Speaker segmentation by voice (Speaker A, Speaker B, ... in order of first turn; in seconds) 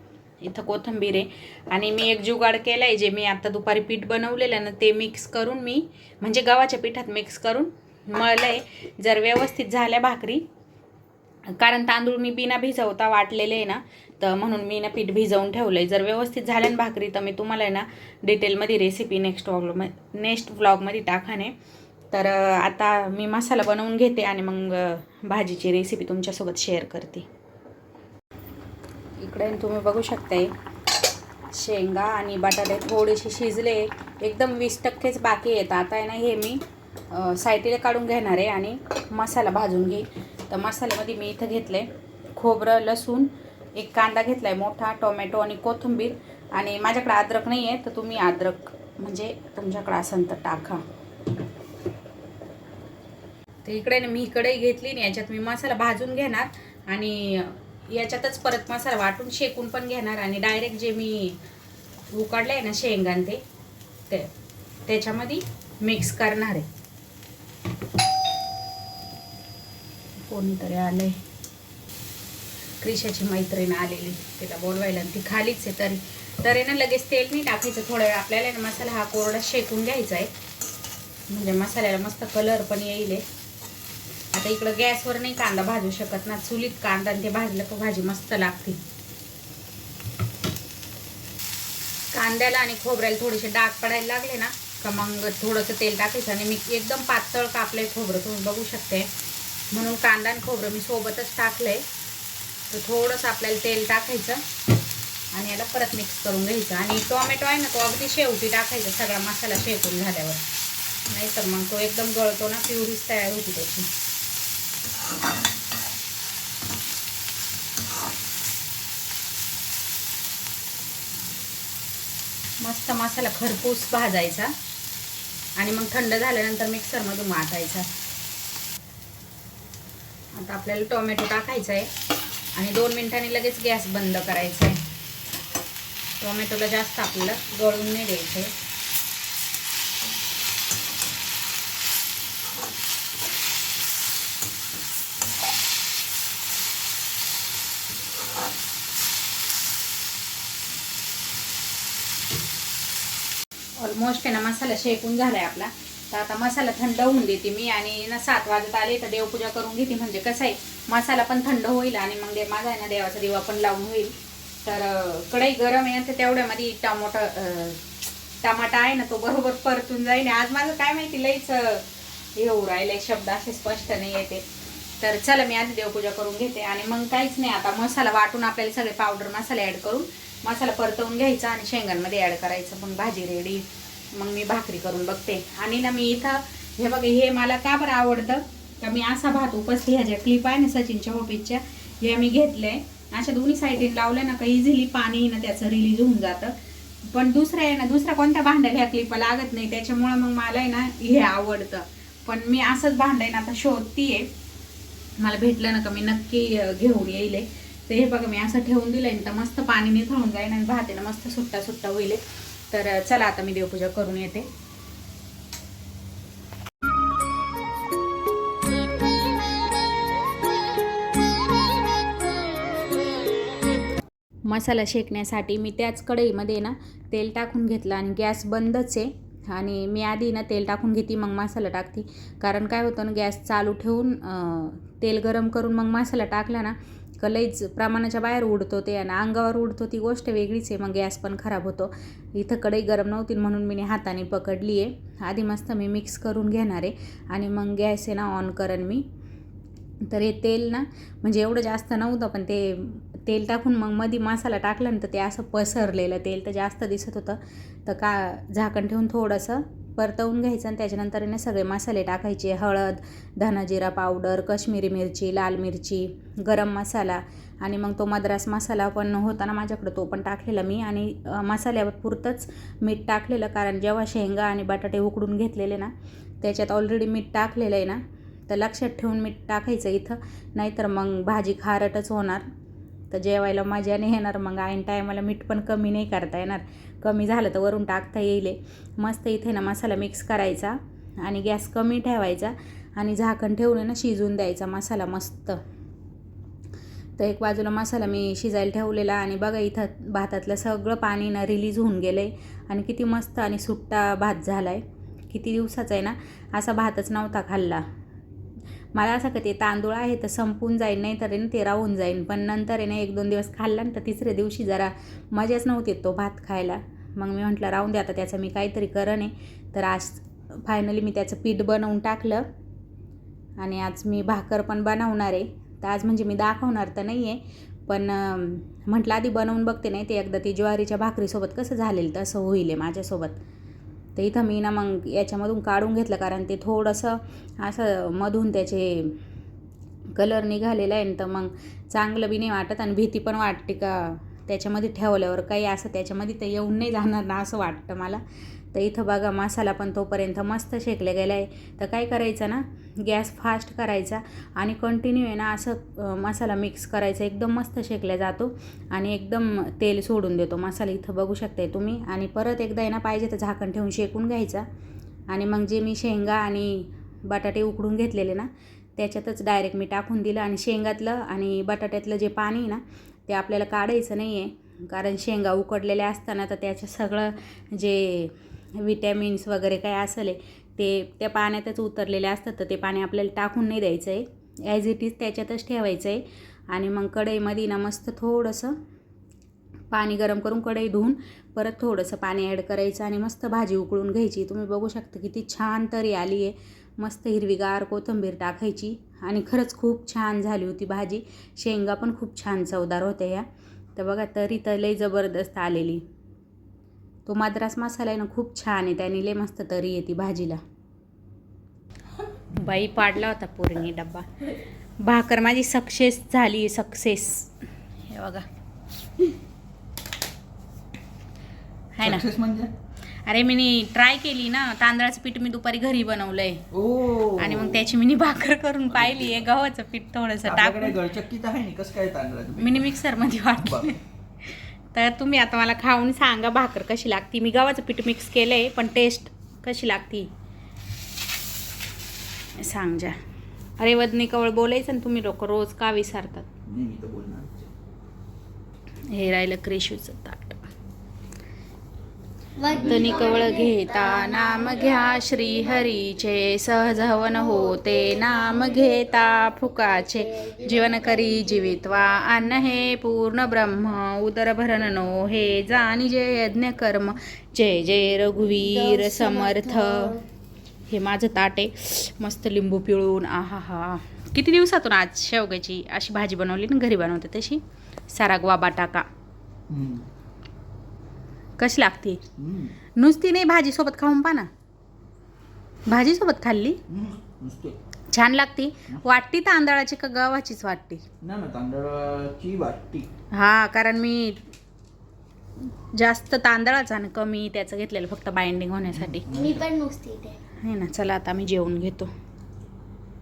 Speaker A: 0.4-10.4, 11.6-21.5, 22.1-27.3, 29.2-30.5, 31.5-50.8, 53.6-61.4, 62.1-63.4, 64.9-66.7, 70.2-71.2, 72.8-80.3, 81.3-83.2, 84.3-88.8, 92.1-99.1, 99.7-101.8, 102.7-104.4, 105.3-110.4, 111.1-113.9, 122.6-124.5, 125.6-127.9, 130.3-131.9, 132.6-134.8, 136.2-138.5, 153.8-164.1, 164.6-167.8, 168.4-171.8, 172.3-174.4, 175.0-196.5, 197.1-204.3, 205.2-214.5, 224.5-249.0, 250.1-282.4, 283.1-295.6, 297.2-307.8, 308.9-322.4, 323.6-333.4, 334.1-339.2, 340.1-348.2, 348.7-364.6, 365.3-388.8, 389.9-403.4, 403.9-406.0, 407.2-410.6, 412.5-414.2, 415.0-417.5, 418.1-418.4, 421.9-422.2, 423.2-426.6, 427.4-431.0, 432.6-434.0, 434.9-440.3, 442.6-443.2, 443.8-446.5, 449.1-450.6, 452.8-470.1, 470.9-479.1, 481.6-482.2, 483.0-484.5, 485.9-486.8, 488.1-491.0, 493.3-494.4, 495.9-499.2, 500.6-502.1
Speaker B: 422.0-422.7, 426.7-427.9, 428.9-429.4, 430.4-434.0, 446.7-447.7, 452.7-453.6, 479.7-480.1, 482.4-482.8, 486.9-487.8, 491.2-493.1, 499.0-499.6
Speaker C: 452.6-455.8, 457.2-461.8, 468.6-470.2, 499.3-500.4